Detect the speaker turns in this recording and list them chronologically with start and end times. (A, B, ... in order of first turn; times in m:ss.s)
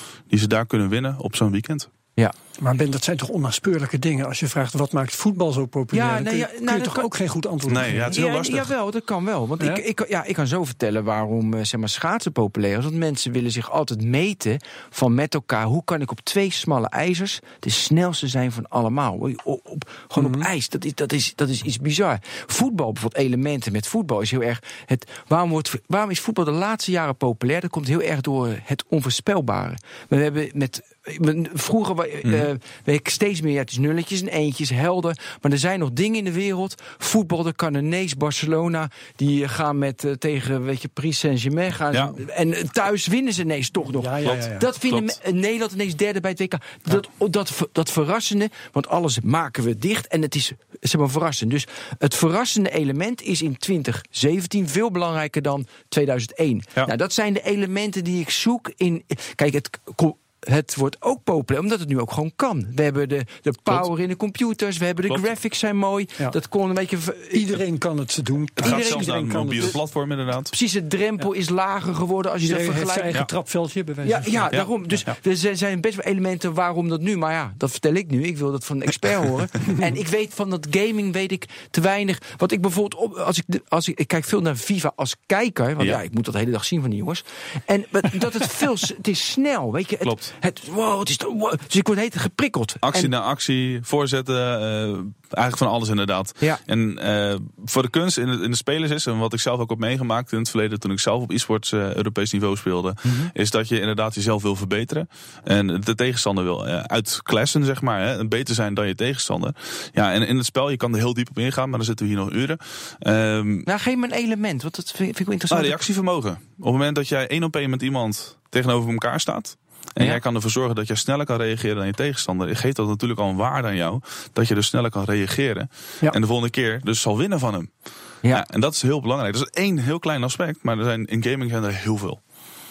0:00.3-0:01.9 A
0:02.6-0:08.2 B
0:05.9-0:07.1 C
0:07.7-0:08.7 A
0:08.1-1:07.6 C
0:20.2-0:20.5 B
0:41.9-0:42.2 A
0:43.9-0:44.7 B
0:44.2-0:45.2 A
1:07.3-1:09.8 B
1:08.6-1:09.7 C
1:08.6-1:10.5 A
1:10.5-1:13.2 C
1:12.4-1:14.5 B
1:14.0-1:33.1 C
1:14.5-1:15.1 A
1:30.0-1:30.3 A
1:32.8-1:53.7 A
1:43.0-1:43.3 C
1:53.7-1:55.8 C
1:55.5-2:07.7 A
2:08.3-2:12.2 A